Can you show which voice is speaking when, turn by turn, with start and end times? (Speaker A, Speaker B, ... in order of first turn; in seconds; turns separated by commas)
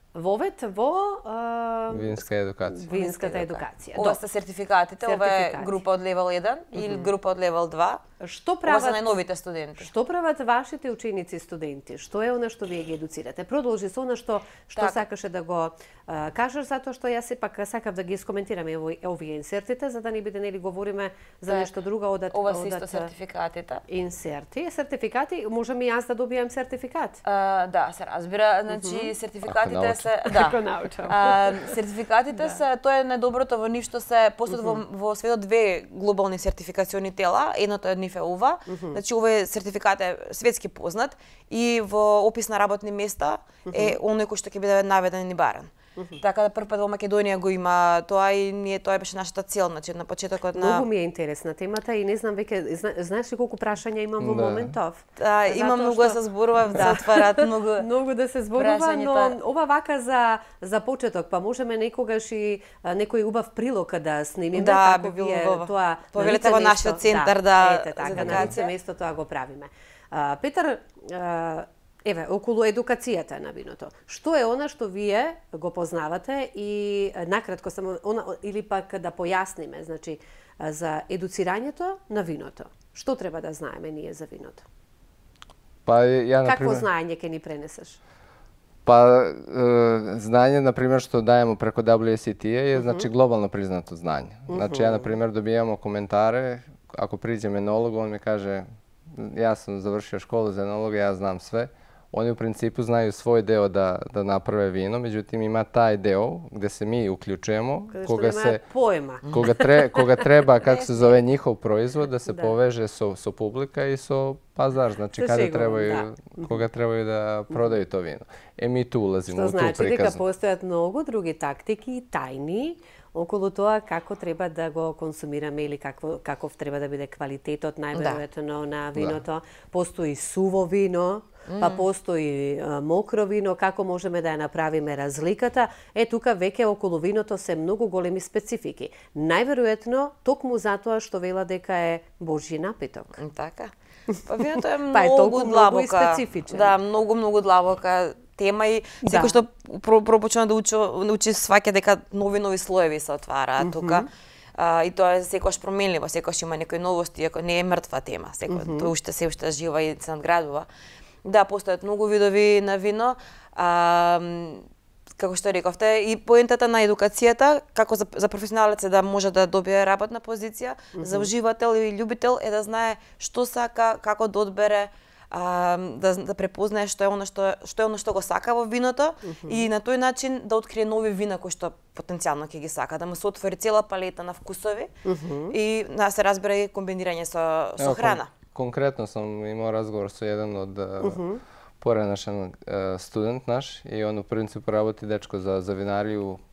Speaker A: 0.1-4.2, Speaker B: 1.9-3.0, Speaker C: 2.9-8.0, Speaker A: 5.0-5.8, Speaker A: 6.8-7.1, Speaker A: 8.2-9.1, Speaker C: 8.7-9.9, Speaker A: 9.8-23.1, Speaker C: 14.8-15.0, Speaker C: 22.3-23.8, Speaker A: 23.9-27.2, Speaker C: 27.2-45.7, Speaker A: 28.7-29.1, Speaker B: 29.4-30.1, Speaker A: 30.3-31.7, Speaker A: 38.7-39.0, Speaker A: 43.7-44.0, Speaker C: 46.2-50.9, Speaker A: 50.5-84.7, Speaker B: 54.2-54.8, Speaker C: 55.2-57.9, Speaker C: 58.6-59.4, Speaker C: 64.5-68.7, Speaker B: 68.2-68.5, Speaker B: 85.9-86.9, Speaker A: 86.5-88.0, Speaker B: 88.8-108.6, Speaker A: 92.8-93.1, Speaker A: 94.5-95.1, Speaker A: 107.9-110.2, Speaker B: 109.3-120.2, Speaker C: 110.6-111.1, Speaker A: 112.3-112.5, Speaker A: 115.2-116.6, Speaker A: 119.3-143.2, Speaker C: 127.9-128.2, Speaker C: 131.5-131.8, Speaker C: 143.2-143.7, Speaker C: 144.3-160.7, Speaker A: 144.6-146.7, Speaker A: 149.0-149.4, Speaker A: 153.6-154.1, Speaker A: 158.5-158.9, Speaker C: 161.2-164.7, Speaker C: 165.2-184.9, Speaker A: 170.9-171.3, Speaker A: 179.2-179.7, Speaker A: 185.1-185.6, Speaker C: 185.5-188.3, Speaker B: 187.8-191.2, Speaker A: 191.0-191.4, Speaker B: 191.8-196.4